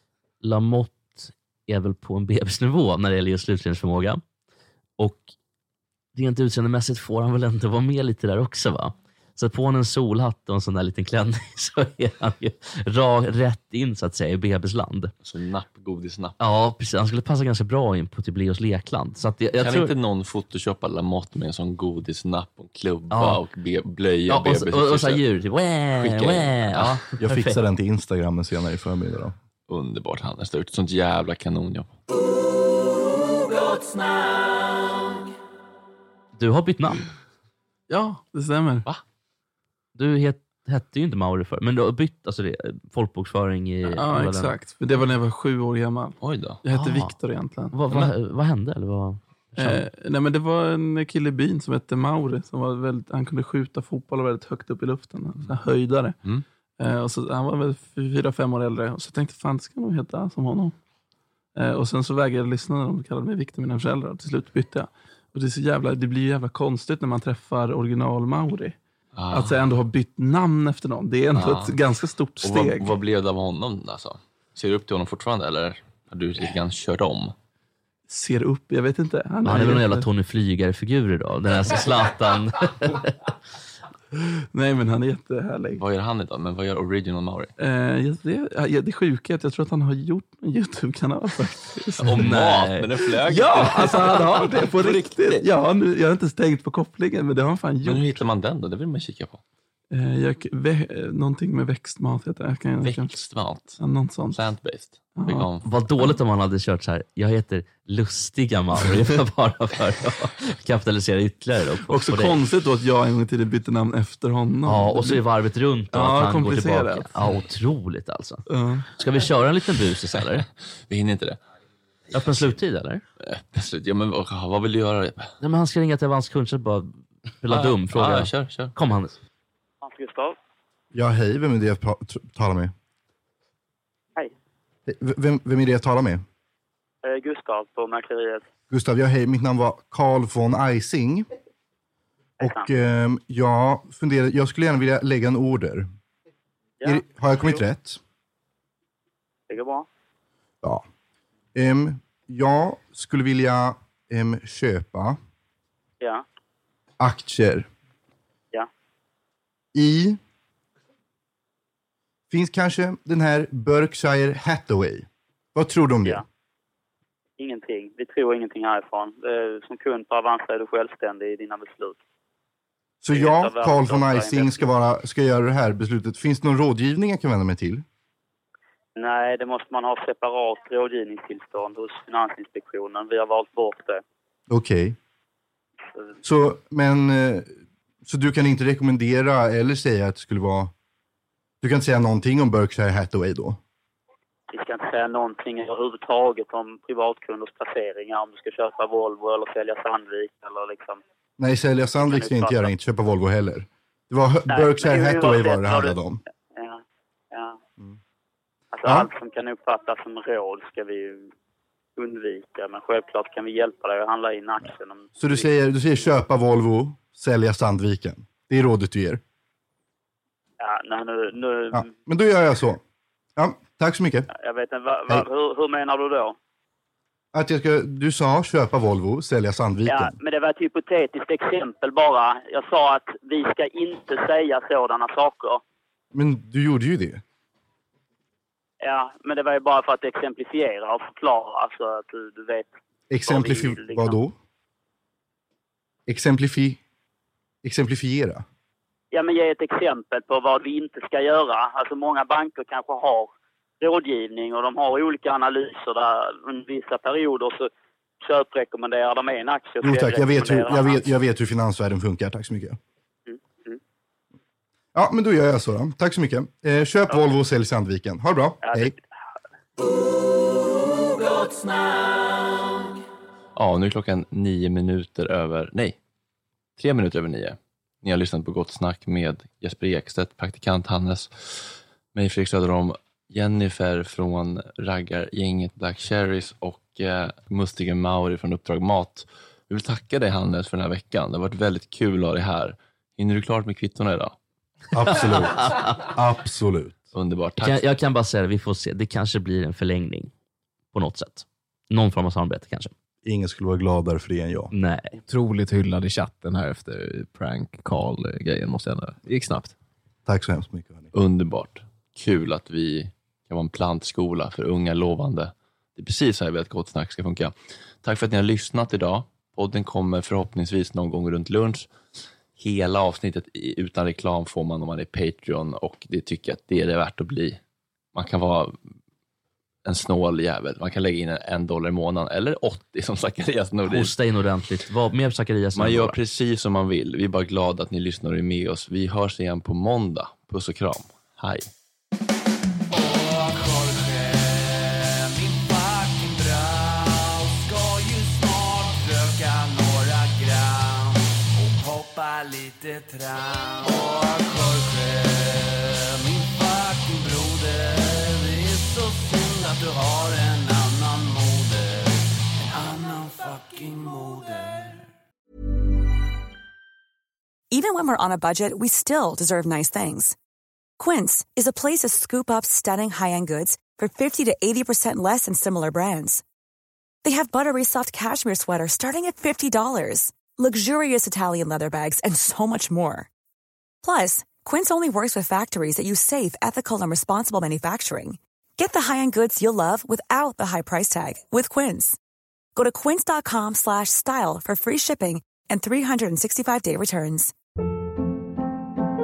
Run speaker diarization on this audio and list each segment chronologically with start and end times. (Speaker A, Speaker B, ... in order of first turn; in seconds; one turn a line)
Speaker A: 0.4-4.2
Speaker A: 5.0-5.3
Speaker A: 6.1-15.1
Speaker B: 15.2-16.4
Speaker A: 16.4-19.9
Speaker B: 19.6-25.2
Speaker A: 23.1-23.4
Speaker A: 24.3-27.6
Speaker B: 26.0-27.0
Speaker C: 27.2-29.3
Speaker B: 29.7-31.9
Speaker D: 33.6-34.4
Speaker A: 36.4-37.0
Speaker E: 37.9-38.9
Speaker A: 40.0-44.5
Speaker E: 43.9-47.8
Speaker B: 46.2-46.6
Speaker A: 46.7-47.1
Speaker A: 47.7-49.9
Speaker E: 49.6-56.2
Speaker E: 56.8-60.7
Speaker E: 61.5-68.8
Speaker B: 69.1-69.6
Speaker E: 69.3-73.0
Speaker B: 71.3-71.8
Speaker B: 72.4-77.3
Speaker E: 78.1-80.0
Speaker A: 79.4-83.1
Speaker E: 84.5-85.8
Speaker B: 85.8-87.5
Speaker E: 87.6-92.3
Speaker A: 92.0-92.9
Speaker B: 92.0-95.5
Speaker E: 93.2-98.2
Speaker A: 93.4-94.4
Speaker B: 97.8-99.4
Speaker E: 99.9-103.1
Speaker B: 102.8-103.8
Speaker E: 103.8-104.4
Speaker B: 104.3-105.7
Speaker E: 105.2-105.5
Speaker A: 105.6-112.4
Speaker E: 111.9-115.2
Speaker A: 114.6-120.5
Speaker E: 115.9-117.1
Speaker E: 118.5-118.8
Speaker B: 120.9-121.4
Speaker A: 122.1-123.0
Speaker B: 123.2-125.3
Speaker A: 125.4-129.2
Speaker B: 127.5-128.7
Speaker F: 129.8-130.3
Speaker C: 130.9-132.7
Speaker C: 134.9-136.2
Speaker F: 137.0-138.4
Speaker C: 138.7-141.3
Speaker F: 142.4-142.7
Speaker C: 142.4-145.9
Speaker F: 146.8-147.6
Speaker C: 146.8-148.0
Speaker F: 149.5-149.8
Speaker C: 151.5-155.2
Speaker C: 157.0-157.7
Speaker C: 159.7-160.2
Speaker C: 162.3-166.2
Speaker F: 167.4-172.0
Speaker C: 173.0-177.8
Speaker F: 173.1-174.7
Speaker F: 178.9-184.0
Speaker C: 184.5-184.9
Speaker C: 186.2-187.5
Speaker C: 188.0-190.7
Speaker C: 191.6-193.6
Speaker F: 194.5-201.0
Speaker C: 201.4-206.2
Speaker F: 202.1-202.7
Speaker F: 204.5-205.9
Speaker F: 206.5-206.8
Speaker F: 207.3-207.6
Speaker F: 208.7-211.3
Speaker F: 212.0-215.5
Speaker C: 214.6-219.2
Speaker F: 220.6-221.9
Speaker C: 221.7-222.8
Speaker C: 223.3-224.3
Speaker F: 224.3-226.3
Speaker C: 227.3-230.2
Speaker F: 229.8-235.6
Speaker C: 236.1-237.2
Speaker F: 238.8-242.7
Speaker C: 243.1-244.3
Speaker F: 243.2-244.2
Speaker C: 246.1-246.8
Speaker C: 247.6-248.4
Speaker F: 249.1-253.3
Speaker F: 253.8-257.7
Speaker F: 258.2-261.0
Speaker C: 259.8-262.8
Speaker F: 263.3-263.8
Speaker C: 264.9-268.9
Speaker F: 268.6-269.0
Speaker B: 273.5-276.0
Speaker B: 276.8-294.3
Speaker C: 294.9-297.0
Speaker A: 295.1-296.0
Speaker B: 297.1-297.8
Speaker A: 297.6-300.3
Speaker A: 300.9-302.9
Speaker C: 303.2-304.7
Speaker A: 304.7-305.2
Speaker G: 305.3-309.7
Speaker C: 310.2-311.1
Speaker B: 311.1-321.9
Speaker B: 322.6-327.6
Speaker B: 328.1-328.8
Speaker B: 329.8-334.1
Speaker A: 333.8-336.2
Speaker B: 335.8-341.7
Speaker D: 342.9-365.1
Speaker H: 367.7-370.4
Speaker H: 371.0-376.4
Speaker H: 377.2-383.3
Speaker H: 384.0-392.2
Speaker H: 392.8-397.5